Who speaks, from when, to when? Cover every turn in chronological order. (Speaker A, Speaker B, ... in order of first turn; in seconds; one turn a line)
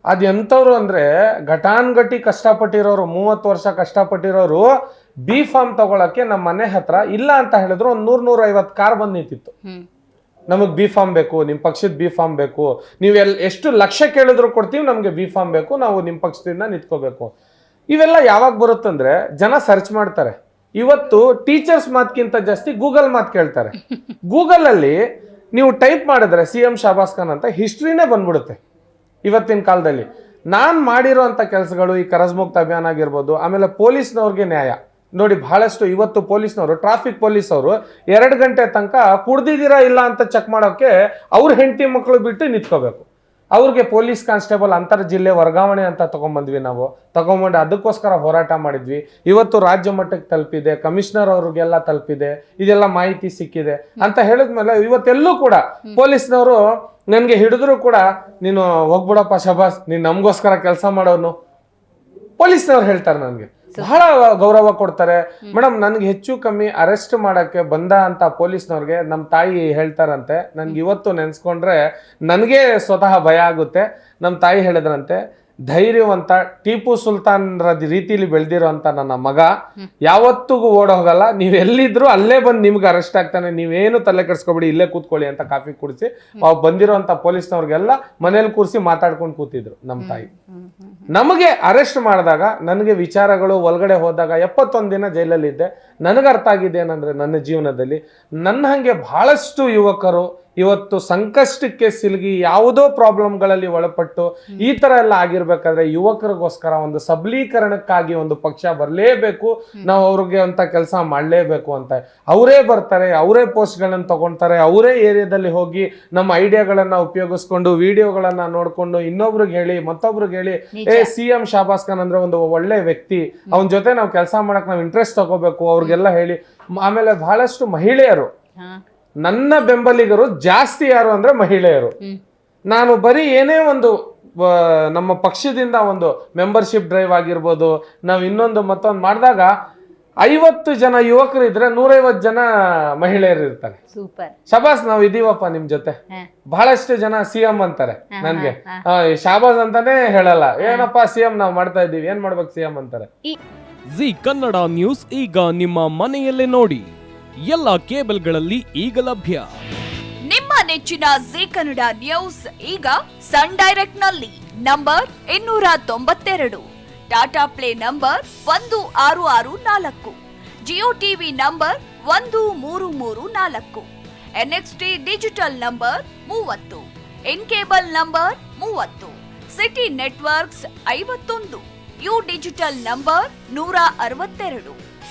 Speaker A: 0.1-4.7
Speaker A: 5.3-9.5
Speaker A: 10.5-17.3
Speaker A: 17.9-23.8
Speaker A: 24.3-25.0
Speaker A: 25.5-28.6
Speaker A: 29.3-56.6
Speaker A: 57.1-61.3
Speaker A: 62.4-79.5
Speaker B: 63.8-64.0
Speaker A: 80.1-90.3
Speaker B: 90.0-91.1
Speaker A: 91.1-128.3
Speaker B: 120.7-121.1
Speaker A: 129.2-131.9
Speaker A: 132.7-139.5
Speaker A: 140.2-142.5
Speaker A: 143.0-143.8
Speaker B: 143.9-144.3
Speaker A: 144.5-146.0
Speaker A: 146.5-153.1
Speaker B: 148.2-148.8
Speaker B: 150.6-150.9
Speaker C: 153.9-156.9
Speaker C: 157.4-159.5
Speaker D: 160.3-173.9
Speaker D: 174.4-184.8